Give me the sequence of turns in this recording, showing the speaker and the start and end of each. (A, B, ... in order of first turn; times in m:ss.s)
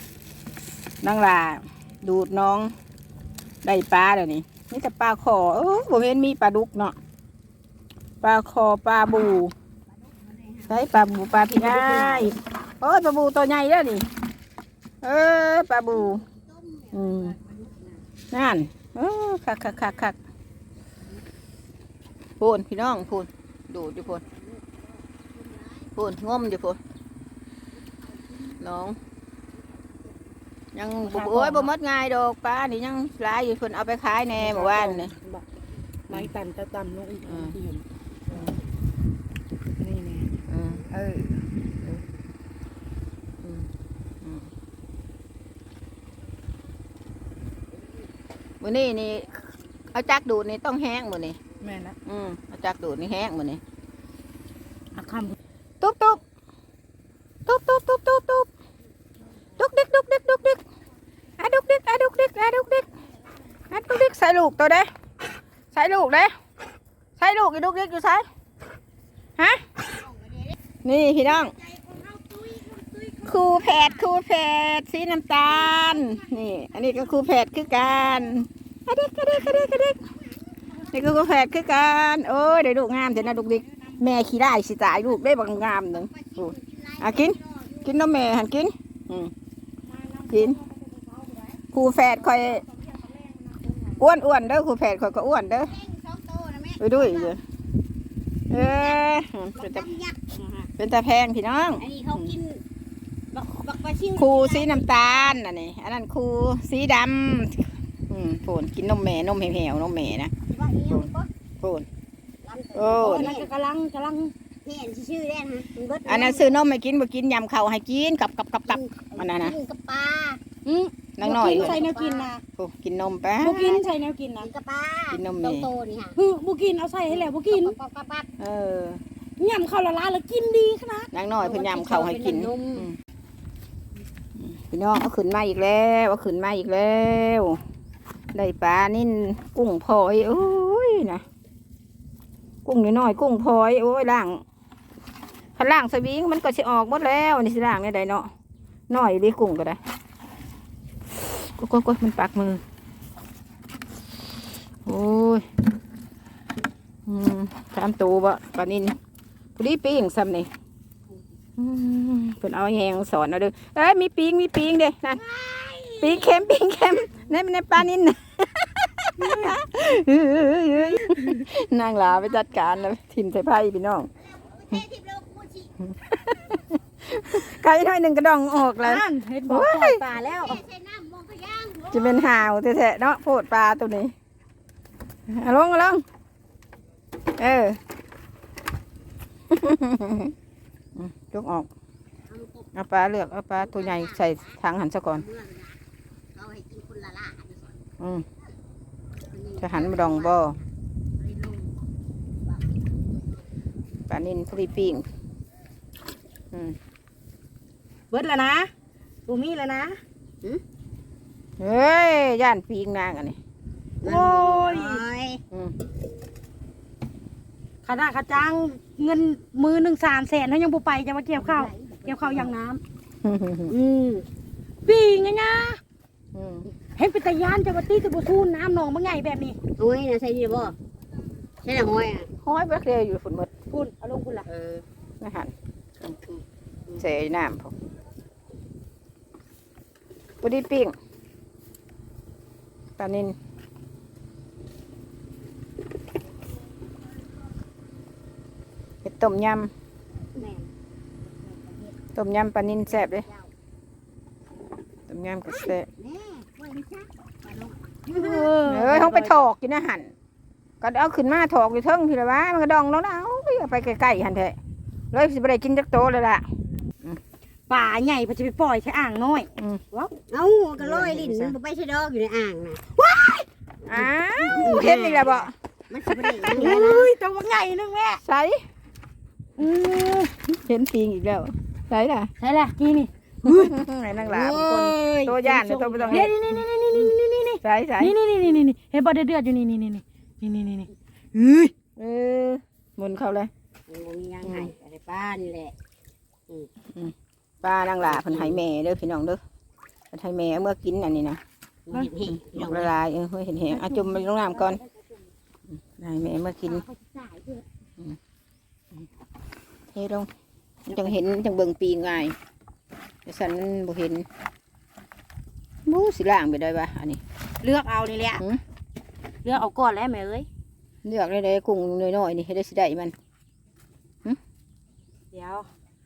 0:01.0-0:02.7 A
0:03.6-0:06.9 A
0:08.2-0:09.5 A
0:09.9-0:11.0 B
0:10.7-0:14.1 A
0:11.5-0:12.3 B
0:15.0-0:16.2 A
0:15.9-0:18.1 B
0:16.9-0:17.4 A
0:18.3-0:20.2 A
0:22.4-0:24.2 A
0:24.0-0:25.9 B
0:26.0-0:26.8 A
0:27.8-0:28.6 B
0:28.6-0:29.0 A
0:30.7-0:35.1 A
0:31.0-0:31.7 C
0:34.3-0:35.4 C
0:36.1-0:37.8 C
0:37.3-0:37.5 A
0:39.7-0:40.3 C
0:40.5-0:42.0 A
0:43.4-0:43.7 A
0:44.2-0:44.5 A
0:48.6-0:51.4 A
0:51.6-0:52.0 C
0:52.0-0:53.6 A
0:54.9-0:55.4 C
0:55.8-0:56.2 A
0:57.4-0:58.5 A
0:59.6-1:00.6 A
1:01.4-1:02.9 A
1:03.7-1:04.9 A
1:05.7-1:06.3 A
1:07.2-1:08.2 A
1:09.4-1:09.8 A
1:10.8-1:11.5 A
1:11.5-1:14.1 C
1:13.2-1:20.0 A
1:15.7-1:16.0 C
1:20.9-1:29.3 A
1:26.1-1:27.9 B
1:29.8-1:31.6 C
1:30.3-1:30.6 A
1:31.7-1:32.6 A
1:32.2-1:34.0 C
1:34.0-1:35.7 A
1:35.5-1:37.3 B
1:36.8-1:37.4 A
1:38.5-1:39.9 A
1:38.5-1:40.7 B
1:40.8-1:42.3 A
1:41.8-1:42.6 B
1:43.3-1:45.4 B
1:44.2-1:50.3 A
1:50.5-1:51.3 B
1:51.6-1:51.9 A
1:52.4-1:53.5 B
1:52.7-1:53.3 A
1:53.0-1:54.3 C
1:54.6-1:56.6 B
1:56.0-1:59.5 A
1:58.7-2:00.4 B
2:00.7-2:01.8 A
2:00.7-2:02.4 C
2:01.3-2:02.3 B
2:02.6-2:03.7 A
2:03.4-2:04.5 C
2:03.5-2:03.8 B
2:04.4-2:06.2 B
2:05.1-2:05.7 A
2:06.2-2:07.8 C
2:07.1-2:08.3 B
2:08.4-2:09.0 A
2:09.4-2:11.1 C
2:11.1-2:12.9 A
2:11.4-2:12.9 B
2:14.4-2:17.6 A
2:18.3-2:21.2 A
2:22.6-2:24.4 A
2:25.6-2:28.3 A
2:28.9-2:29.8 A
2:31.1-2:32.6 A
2:34.8-2:35.5 A
2:37.0-2:39.0 A
2:39.6-2:40.5 A
2:41.6-2:45.2 A
2:45.2-2:46.5 C
2:46.0-2:54.1 A
2:49.2-2:49.6 C
2:50.8-2:51.4 C
2:52.3-2:52.6 B
2:54.2-2:55.7 B
2:56.3-3:00.0 A
2:58.8-3:00.6 C
3:00.0-3:02.4 B
3:01.9-3:04.1 A
3:05.3-3:06.0 A
3:07.4-3:07.8 A
3:09.5-3:10.3 A
3:11.0-3:11.7 A
3:12.3-3:12.7 B
3:12.7-3:15.2 A
3:13.6-3:15.8 B
3:16.3-3:17.8 B
3:18.0-3:18.2 A
3:19.3-3:21.8 B
3:19.6-3:20.6 A
3:22.4-3:23.4 B
3:24.1-3:25.0 A
3:26.5-3:26.8 A
3:28.1-3:28.7 C
3:29.3-3:30.0 C
3:31.6-3:33.4 A
3:34.0-3:35.0 C
3:34.0-3:35.4 B
3:37.8-3:42.8 C
3:41.3-3:42.5 B
3:43.2-3:43.7 A
3:43.7-3:44.3 B
3:44.8-3:45.8 C
3:46.3-3:46.7 A
3:47.0-3:49.6 C
3:49.8-3:50.8 B
3:51.6-3:52.3 B
3:52.4-3:53.5 A
3:53.7-3:54.4 C
3:54.4-3:54.8 B
3:55.2-3:55.5 A
3:57.0-3:57.7 A
4:00.4-4:00.9 A
4:03.0-4:03.4 A
4:09.0-4:09.7 A
4:10.3-4:10.7 B
4:11.2-4:12.0 B
4:12.1-4:13.2 A
4:12.8-4:13.5 B
4:15.1-4:15.9 A
4:15.5-4:18.6 B
4:18.1-4:19.4 C
4:18.6-4:20.1 A
4:20.8-4:24.6 A
4:25.1-4:26.5 A
4:27.7-4:30.1 C
4:30.3-4:33.0 B
4:30.8-4:31.6 A
4:33.0-4:33.4 C
4:33.9-4:35.5 A
4:34.0-4:34.7 C
4:34.5-4:37.1 B
4:36.1-4:38.2 C
4:38.2-4:38.6 A
4:39.6-4:40.3 C
4:40.5-4:42.3 A
4:42.4-4:43.7 C
4:43.4-4:46.3 A
4:44.2-4:46.4 B
4:45.5-4:51.7 C
4:46.9-4:47.2 B
4:47.6-4:48.2 A
4:52.0-4:53.5 A
4:53.9-4:55.7 B
4:54.4-4:54.7 A
4:56.9-4:59.4 A
4:58.0-4:58.6 B
5:00.1-5:01.4 A
5:01.9-5:02.9 B
5:02.3-5:04.8 A
5:03.7-5:04.3 C
5:04.6-5:05.2 B
5:05.8-5:06.8 A
5:06.6-5:07.6 B
5:09.9-5:10.3 A
5:10.9-5:12.4 A
5:13.2-5:14.2 A
5:15.8-5:17.2 A
5:17.6-5:18.4 C
5:19.4-5:20.5 C
5:21.0-5:23.1 A
5:25.3-5:25.7 C